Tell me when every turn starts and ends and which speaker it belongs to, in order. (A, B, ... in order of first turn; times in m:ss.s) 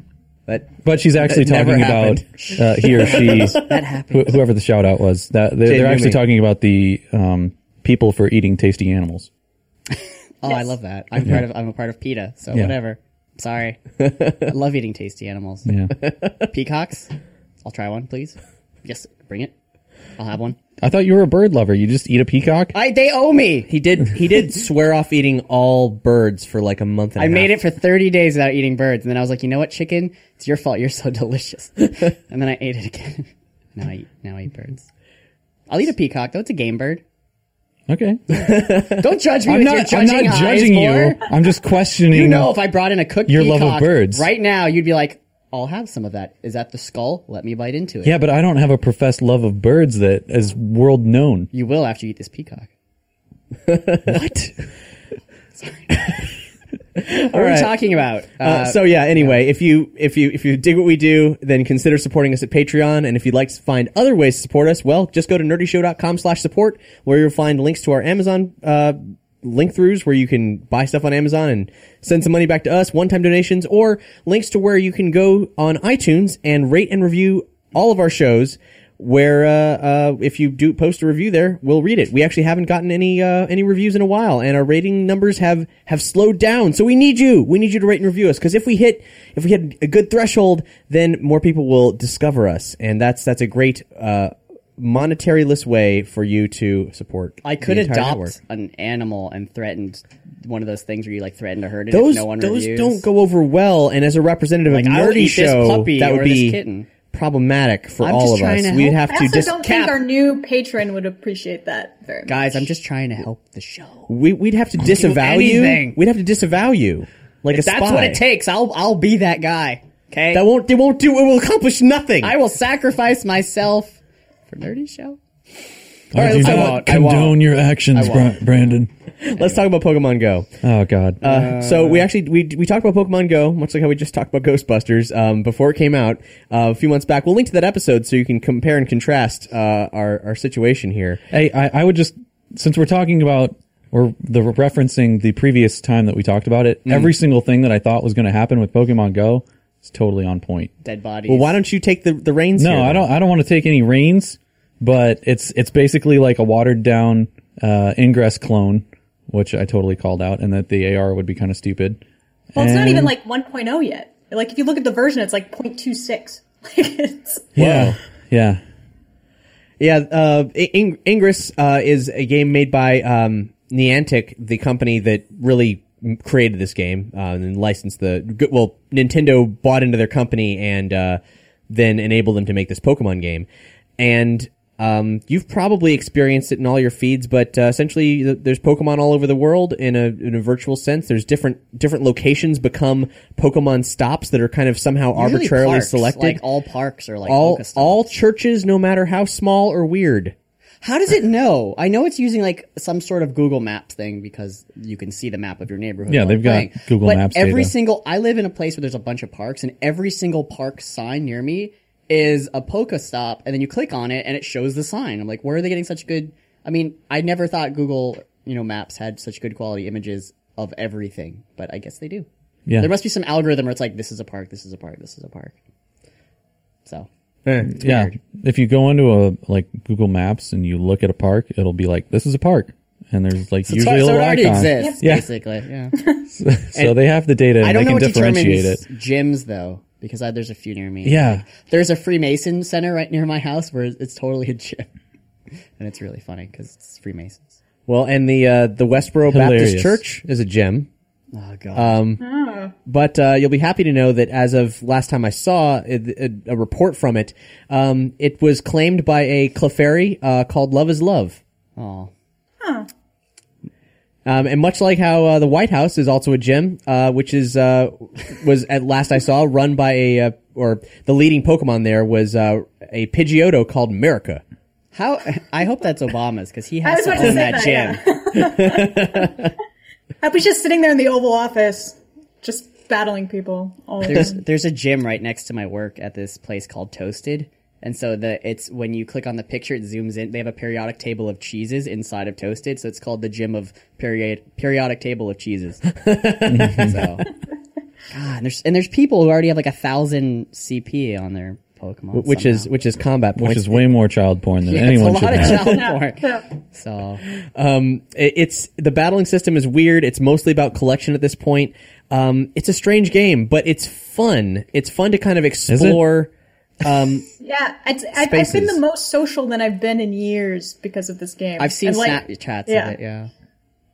0:00.5-0:03.6 A
0:00.8-0:09.3 B
0:03.1-0:04.4 C
0:05.6-0:06.2 A
0:09.9-0:13.8 C
0:14.4-0:15.7 C
0:15.6-0:15.9 B
0:16.5-0:17.1 C
0:17.6-0:19.5 C
0:20.2-0:20.6 C
0:20.8-0:22.7 B
0:22.7-0:23.7 C
0:23.7-0:27.5 A
0:27.2-0:34.9 C
0:35.7-0:37.0 C
0:37.9-0:38.5 B
0:38.3-0:39.0 A
0:38.9-0:41.3 C
0:39.4-0:42.6 B
0:42.1-0:48.2 C
0:43.2-0:44.3 B
0:48.0-0:51.5 B
0:51.5-0:52.7 C
0:53.7-0:54.5 A
0:55.5-0:56.0 C
0:57.0-0:57.7 A
0:57.3-0:59.3 C
0:58.4-1:38.4 A
1:37.4-1:43.0 C
1:41.9-1:46.6 A
1:44.7-1:46.9 C
1:47.1-1:49.6 A
1:48.0-1:50.0 C
1:49.1-1:52.6 D
1:52.3-1:54.1 C
1:54.1-1:58.2 A
1:54.8-1:56.0 C
1:57.5-2:00.4 C
2:00.3-2:02.3 A
2:02.2-2:04.0 C
2:04.5-2:05.2 C
2:06.1-2:08.9 B
2:06.2-2:06.8 A
2:06.2-2:07.4 C
2:07.9-2:08.4 C
2:09.2-2:10.5 A
2:10.6-2:11.2 B
2:11.2-2:12.1 C
2:11.2-2:21.2 A
2:21.3-2:30.7 B
2:26.8-2:27.1 A
2:30.8-2:31.6 C
2:31.3-2:33.1 A
2:32.6-2:42.0 B
2:42.5-2:43.1 B
2:42.5-2:47.5 D
2:47.6-2:48.6 B
2:47.6-2:48.0 A
2:49.8-3:03.5 A
3:04.0-3:16.4 A
3:15.2-3:18.1 C
3:17.3-3:20.3 A
3:20.8-3:42.3 C
3:26.1-3:27.7 B
3:42.7-3:42.9 B
3:42.8-3:45.5 C
3:47.4-3:47.7 A
3:47.7-3:55.3 B
3:47.8-3:48.1 C
3:53.7-3:56.0 C
3:56.3-3:58.8 B
3:57.6-4:04.9 C
4:01.0-4:01.4 B
4:05.8-4:07.5 C
4:07.9-4:10.9 A
4:09.3-4:10.0 B
4:11.3-4:12.0 C
4:11.7-4:12.2 A
4:12.2-4:12.7 D
4:12.9-4:21.4 A
4:21.8-4:22.1 C
4:22.6-4:22.9 D
4:24.2-4:34.4 A
4:34.9-4:38.0 C
4:36.8-4:39.4 D
4:38.5-4:39.3 A
4:40.2-4:44.4 D
4:44.0-4:55.8 C
4:56.0-4:56.9 A
4:56.4-4:57.0 B
4:56.6-4:57.2 C
4:58.1-5:02.7 C
5:02.1-5:03.8 A
5:03.4-5:05.9 B
5:04.6-5:07.2 C
5:05.6-5:06.4 D
5:07.6-5:16.3 A
5:15.7-5:16.0 B
5:16.8-5:17.3 A
5:17.4-5:23.0 D
5:18.2-5:18.8 A
5:21.6-5:23.3 C